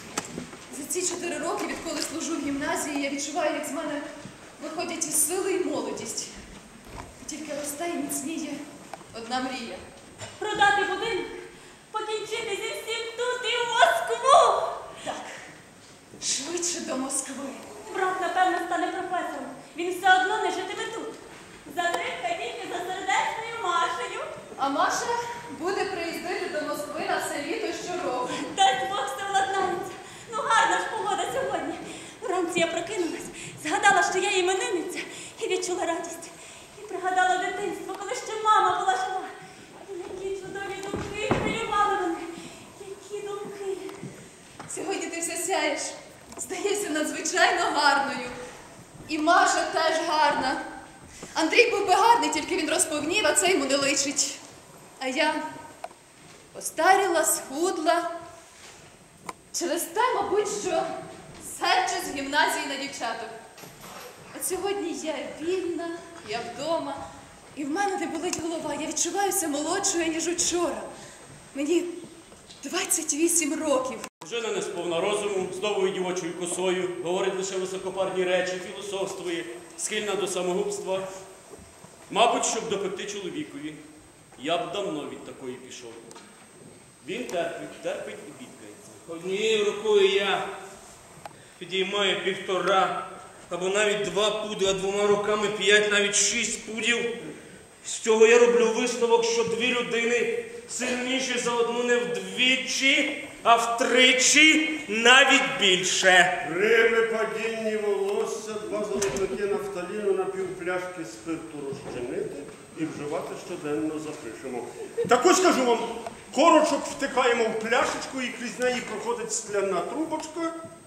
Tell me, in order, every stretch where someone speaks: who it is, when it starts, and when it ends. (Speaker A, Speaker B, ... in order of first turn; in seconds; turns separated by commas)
Speaker A: 0.7-4.0, Speaker A: 4.6-6.3, Speaker A: 7.2-8.6, Speaker A: 9.1-9.8, Speaker B: 10.4-11.3, Speaker B: 11.9-14.8, Speaker A: 15.0-15.3, Speaker A: 16.2-17.6, Speaker B: 17.8-24.3, Speaker A: 24.6-28.4, Speaker B: 28.3-39.3, Speaker B: 39.8-43.9, Speaker A: 44.7-48.4, Speaker A: 49.1-50.6, Speaker A: 51.3-54.4, Speaker A: 55.0-55.4, Speaker A: 56.5-58.1, Speaker A: 59.5-63.3, Speaker A: 64.3-67.0, Speaker A: 67.5-70.9, Speaker A: 71.5-71.9, Speaker A: 72.6-74.1, Speaker C: 74.2-81.0, Speaker C: 82.1-83.8, Speaker C: 84.4-86.2, Speaker C: 87.0-89.0, Speaker D: 89.1-90.5, Speaker D: 91.6-97.1, Speaker D: 97.8-106.3, Speaker E: 106.4-120.5